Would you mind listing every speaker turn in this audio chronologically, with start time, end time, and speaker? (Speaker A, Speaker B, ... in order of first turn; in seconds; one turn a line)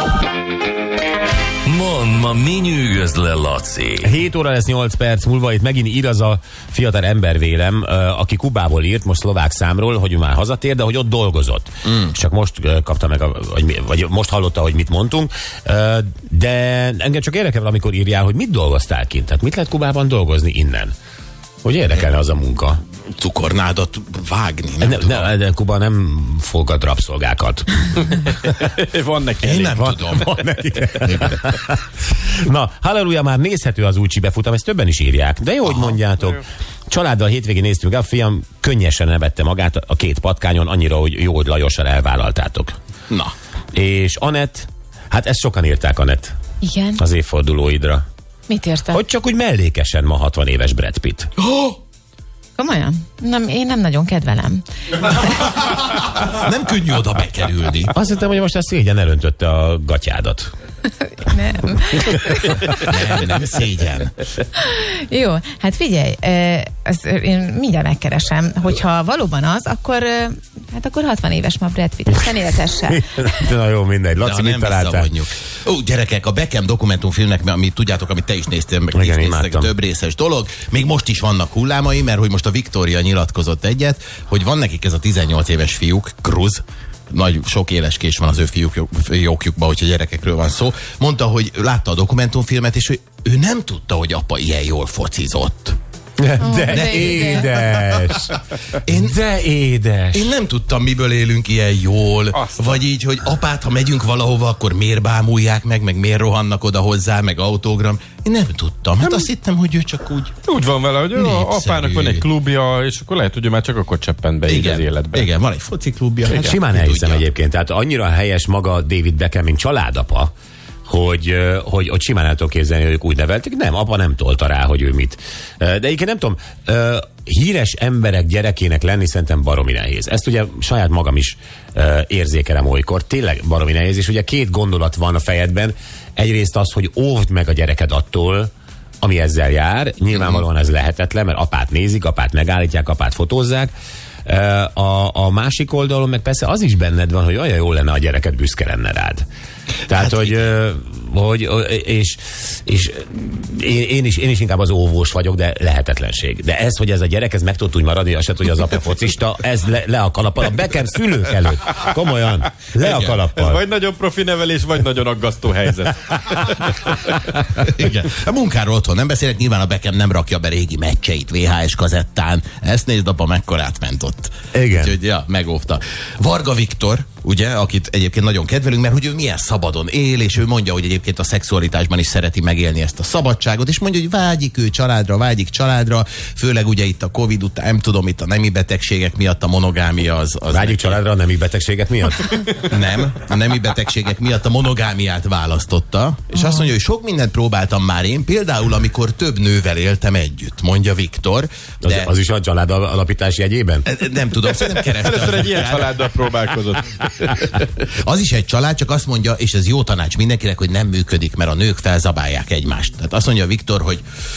Speaker A: 1.6-4.1
Speaker B: 4.0-20.9
Speaker B: 21.6-22.8
Speaker C: 23.2-25.3
Speaker B: 24.8-28.4
Speaker D: 28.4-29.9
Speaker C: 29.4-30.3
Speaker B: 29.8-42.7
Speaker C: 31.0-31.4
Speaker C: 35.7-36.0
Speaker B: 43.7-46.3
Speaker E: 46.6-47.0
Speaker B: 47.0-48.0
Speaker E: 48.5-49.0
Speaker B: 48.9-51.3
Speaker C: 51.4-51.8
Speaker E: 52.6-55.3
Speaker C: 55.3-57.9
Speaker B: 57.9-60.5
Speaker E: 61.1-62.3
Speaker B: 62.0-62.6
Speaker C: 62.7-64.1
Speaker E: 64.6-73.3
Speaker B: 72.9-75.1
Speaker C: 74.2-95.8
Speaker B: 78.9-79.7
Speaker B: 96.2-100.3
Speaker E: 96.4-97.5
Speaker C: 96.7-98.2
Speaker C: 98.8-99.2
Speaker C: 100.1-110.3
Speaker D: 102.3-102.8
Speaker D: 110.4-115.3
Speaker C: 111.1-112.3
Speaker C: 114.5-117.2
Speaker B: 116.3-120.3
Speaker B: 120.9-138.5
Speaker B: 139.0-143.7
Speaker C: 140.2-140.4
Speaker B: 144.2-149.2
Speaker B: 149.9-163.6
Speaker C: 149.9-150.5
Speaker C: 162.8-163.2
Speaker D: 163.3-167.2
Speaker C: 167.6-191.0
Speaker B: 174.5-175.0
Speaker B: 190.5-192.4
Speaker C: 192.6-202.1
Speaker B: 201.8-203.9
Speaker C: 203.9-206.0
Speaker D: 204.9-207.6
Speaker C: 207.9-214.0